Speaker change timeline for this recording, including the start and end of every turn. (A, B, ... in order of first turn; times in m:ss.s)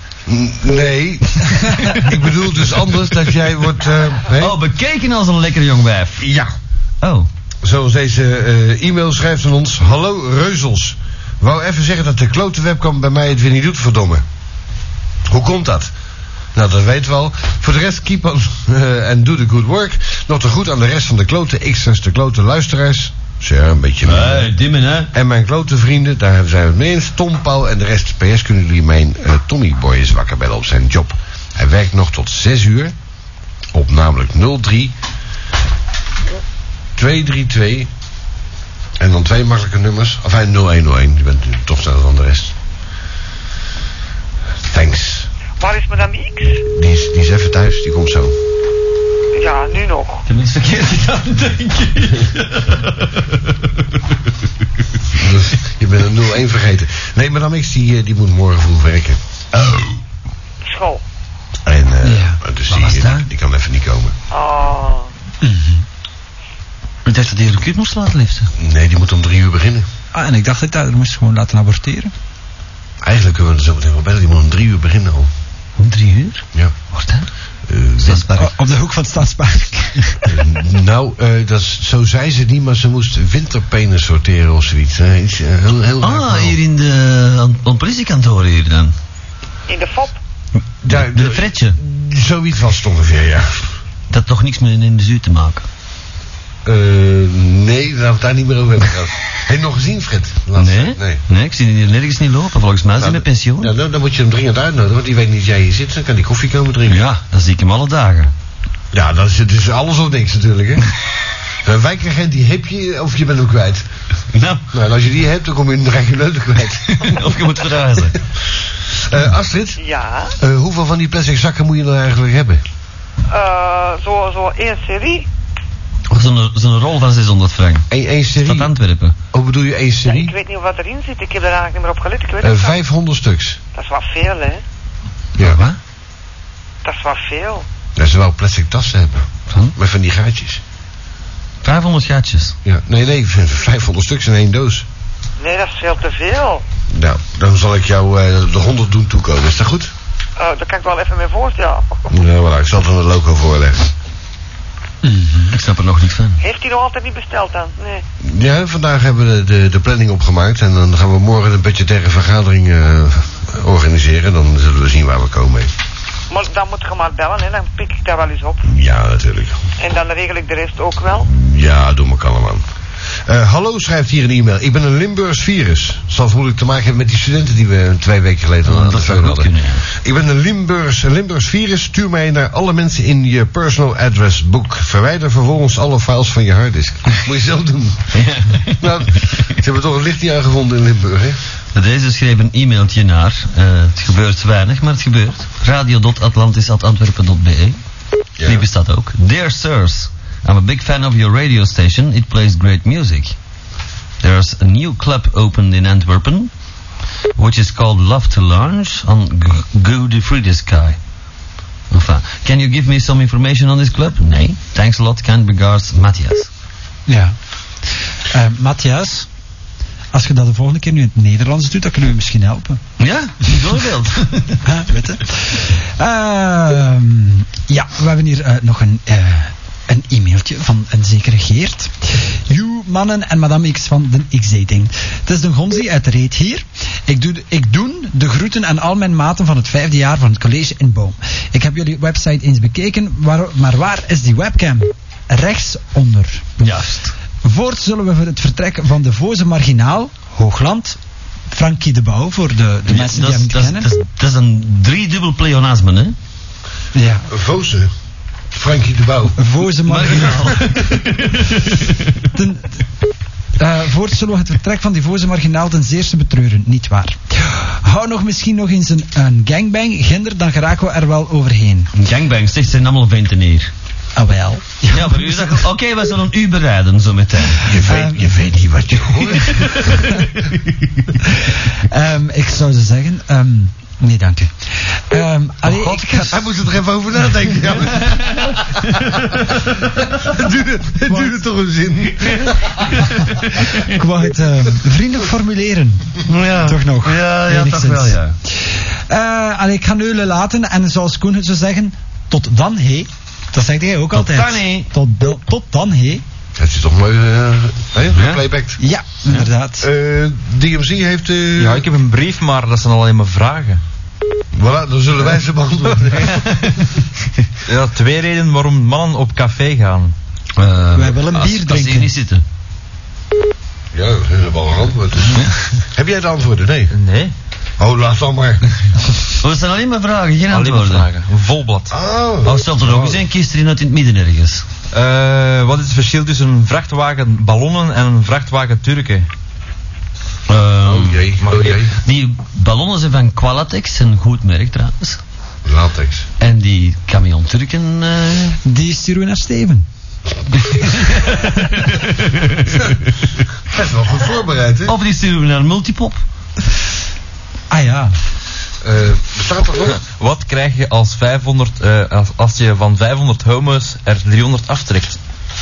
0:00.3-0:04.6 A
0:01.6-0:02.7 B
0:04.3-0:06.3 B
0:06.2-0:06.5 A
0:07.0-0:07.3 B
0:07.6-0:14.2 A
0:15.3-0:15.9 A
0:16.5-0:24.5 A
0:24.0-0:25.1 B
0:25.1-0:32.9 A
0:33.7-0:34.9 A
0:37.0-0:37.9 A
0:39.0-0:42.6 A
0:44.6-0:45.3 A
0:45.6-0:46.6 C
0:46.4-0:48.4 A
0:49.3-0:50.2 C
0:50.2-0:54.0 B
0:55.1-0:59.2 A
0:59.6-0:59.9 B
1:00.6-1:01.0 C
1:01.6-1:04.1 A
1:02.0-1:02.4 D
1:02.7-1:03.3 B
1:04.3-1:05.1 C
1:05.4-1:05.8 D
1:07.0-1:08.5 B
1:08.6-1:09.9 A
1:10.1-1:12.1 D
1:13.0-1:15.3 A
1:15.8-1:17.3 B
1:17.6-1:18.3 A
1:18.0-1:18.5 B
1:18.4-1:20.4 D
1:20.3-1:26.6 A
1:26.0-1:28.9 B
1:29.7-1:30.2 C
1:30.6-1:31.8 B
1:30.8-1:33.7 A
1:34.1-1:35.6 B
1:36.6-1:41.2 A
1:40.5-1:43.7 B
1:43.0-1:47.0 A
1:46.9-1:48.3 B
1:48.9-1:51.0 A
1:51.6-1:53.8 A
1:54.3-1:54.7 B
1:54.7-1:57.4 A
1:56.9-1:58.2 B
1:58.9-1:59.8 A
1:59.8-2:00.4 C
2:00.4-2:02.6 A
2:03.3-2:05.3 C
2:06.1-2:09.2 B
2:07.9-2:08.7 A
2:09.3-2:10.3 A
2:10.0-2:12.8 C
2:12.4-2:13.6 A
2:13.7-2:14.6 C
2:15.4-2:15.6 A
2:15.4-2:15.8 B
2:16.8-2:17.6 C
2:18.0-2:20.6 A
2:19.5-2:19.7 B
2:21.6-2:22.6 B
2:22.6-2:24.8 A
2:25.4-2:26.6 C
2:26.9-2:29.9 A
2:30.4-2:32.0 C
2:32.1-2:33.9 A
2:35.0-2:35.5 D
2:35.5-2:36.4 B
2:36.4-2:38.0 C
2:38.2-2:45.7 A
2:46.3-2:48.6 C
2:48.6-2:49.6 A
2:49.8-2:51.3 C
2:51.2-2:52.6 A
2:53.2-3:11.4 A
2:58.6-2:59.8 B
3:08.1-3:09.5 B
3:11.7-3:17.8 B
3:18.4-3:18.6 A
3:18.4-3:23.4 B
3:24.2-3:26.5 B
3:27.4-3:31.0 B
3:31.9-3:36.5 B
3:37.1-3:37.3 D
3:38.3-3:39.3 D
3:40.1-3:42.8 D
3:43.0-3:44.6 B
3:44.6-4:06.4 D
4:06.6-4:07.1 B
4:07.4-4:11.0 D
4:11.5-4:13.9 D
4:12.9-4:16.2 B
4:16.9-4:17.3 D
4:17.3-4:17.9 A
4:18.5-4:19.4 A
4:19.4-4:20.7 D
4:19.8-4:22.3 B
4:22.3-4:22.8 D
4:23.6-4:31.9 D
4:31.9-4:33.7 B
4:34.2-4:35.6 D
4:34.9-4:37.7 B
4:37.6-4:40.2 A
4:37.7-4:38.4 D
4:39.3-4:40.5 B
4:41.3-4:46.4 D
4:45.6-4:46.3 B
4:46.2-4:53.2 A
4:47.9-4:49.6 B
4:52.2-4:54.0 B
4:53.8-5:06.2 D
4:56.2-4:58.3 B
5:04.1-5:04.9 B
5:06.6-5:08.8 A
5:08.1-5:08.4 B
5:08.8-5:09.9 D
5:09.8-5:11.9 A
5:11.6-5:13.8 E
5:14.5-5:16.4 A
5:16.4-5:16.9 B
5:17.7-5:20.1 E
5:20.6-5:22.4 B
5:20.9-5:22.1 D
5:23.9-5:26.9 A
5:26.9-5:27.3 E
5:27.8-5:28.6 A
5:29.4-5:31.1 B
5:30.5-5:31.9 E
5:31.9-5:33.2 A
5:32.4-5:34.6 B
5:34.9-5:39.3 E
5:40.5-5:45.2 B
5:40.8-5:41.9 A
5:45.6-5:46.3 A
5:46.4-5:48.6 B
5:48.6-5:49.8 D
5:50.6-5:52.9 B
5:53.6-5:55.0 A
5:54.8-5:56.2 B
5:57.7-5:58.1 D
5:58.8-6:00.0 A
6:00.0-6:05.2 E